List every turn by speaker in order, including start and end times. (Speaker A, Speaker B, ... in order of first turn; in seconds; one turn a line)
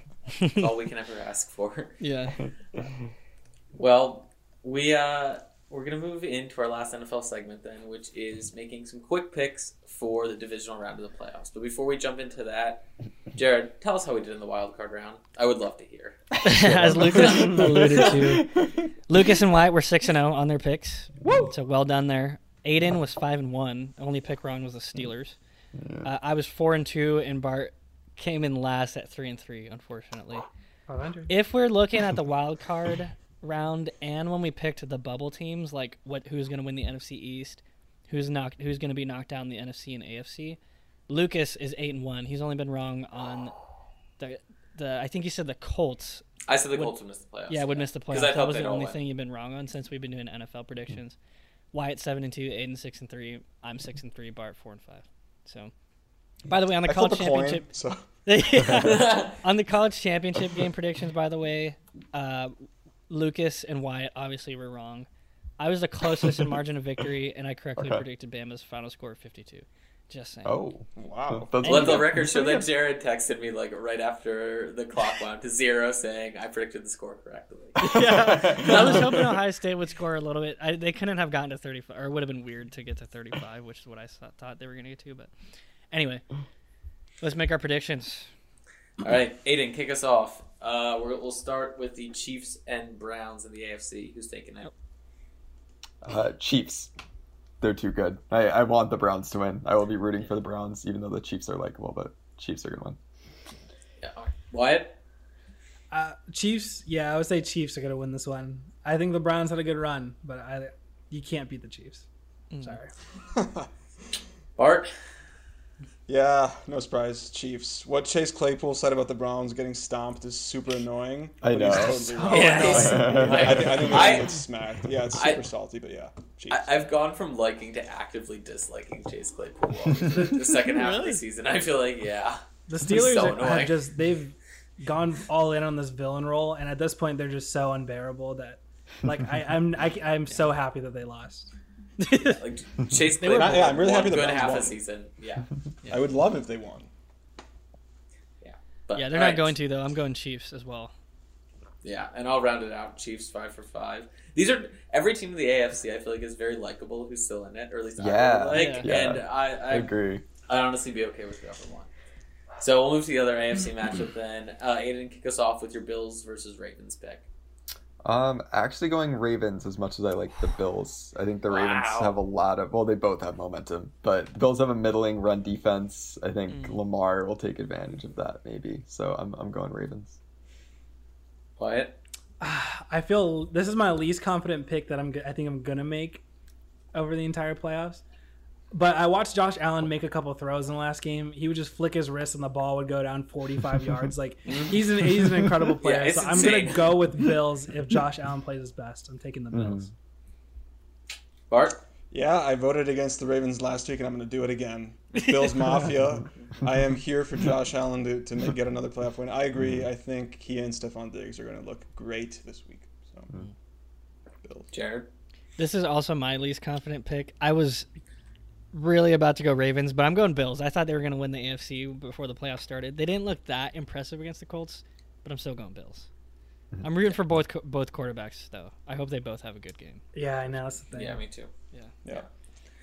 Speaker A: 0.4-0.6
Speaker B: 0.5-2.0
Speaker A: 2.0-2.4
Speaker B: 3.7-16.4
Speaker A: 16.4-25.4
Speaker C: 16.4-18.1
Speaker B: 17.2-18.2
Speaker C: 25.8-26.1
Speaker A: 26.0-30.4
Speaker D: 30.9-31.3
Speaker A: 31.3-40.6
Speaker A: 41.1-43.5
Speaker A: 44.2-46.9
Speaker B: 46.5-49.0
Speaker A: 47.5-51.2
Speaker A: 51.7-55.7
Speaker A: 56.5-57.6
Speaker E: 56.8-58.1
Speaker A: 58.2-65.1
Speaker B: 58.8-59.4
Speaker A: 65.6-70.6
Speaker C: 67.8-68.0
Speaker C: 70.4-72.2
Speaker E: 71.0-71.6
Speaker A: 71.6-72.6
Speaker B: 71.6-79.1
Speaker A: 77.8-85.3
Speaker C: 77.9-79.3
Speaker A: 85.9-86.2
Speaker A: 87.2-88.3
Speaker B: 89.0-94.7
Speaker C: 96.0-96.9
Speaker C: 97.6-103.0
Speaker B: 104.0-105.0
Speaker D: 105.9-112.0
Speaker A: 112.5-112.8
Speaker D: 112.6-112.9
Speaker E: 113.3-113.7
Speaker B: 114.6-114.9
Speaker E: 116.1-126.7
Speaker C: 121.4-124.2
Speaker D: 122.1-123.3
Speaker B: 122.3-124.4
Speaker B: 125.1-125.4
Speaker B: 126.5-133.9
Speaker A: 130.2-131.2
Speaker D: 132.7-141.5
Speaker A: 142.0-142.4
Speaker B: 142.2-145.5
Speaker A: 143.2-143.8
Speaker E: 143.2-144.8
Speaker E: 145.9-146.9
Speaker B: 148.4-149.5
Speaker A: 148.9-150.9
Speaker B: 151.8-159.9
Speaker C: 158.0-160.2
Speaker A: 158.5-158.9
Speaker B: 160.4-161.9
Speaker B: 162.6-167.3
Speaker C: 168.0-180.2
Speaker B: 171.5-172.2
Speaker A: 176.5-176.8
Speaker B: 181.6-182.0
Speaker D: 182.4-186.2
Speaker D: 186.9-188.0
Speaker D: 188.7-199.9
Speaker B: 194.5-194.8
Speaker B: 195.8-197.0
Speaker C: 199.5-199.9
Speaker B: 201.5-201.8
Speaker E: 202.1-213.3
Speaker A: 205.3-205.8
Speaker C: 209.6-209.8
Speaker E: 214.4-214.7
Speaker B: 214.7-215.1
Speaker A: 215.6-217.9
Speaker A: 218.7-226.1
Speaker A: 226.8-230.0
Speaker D: 230.1-231.2
Speaker B: 230.9-231.5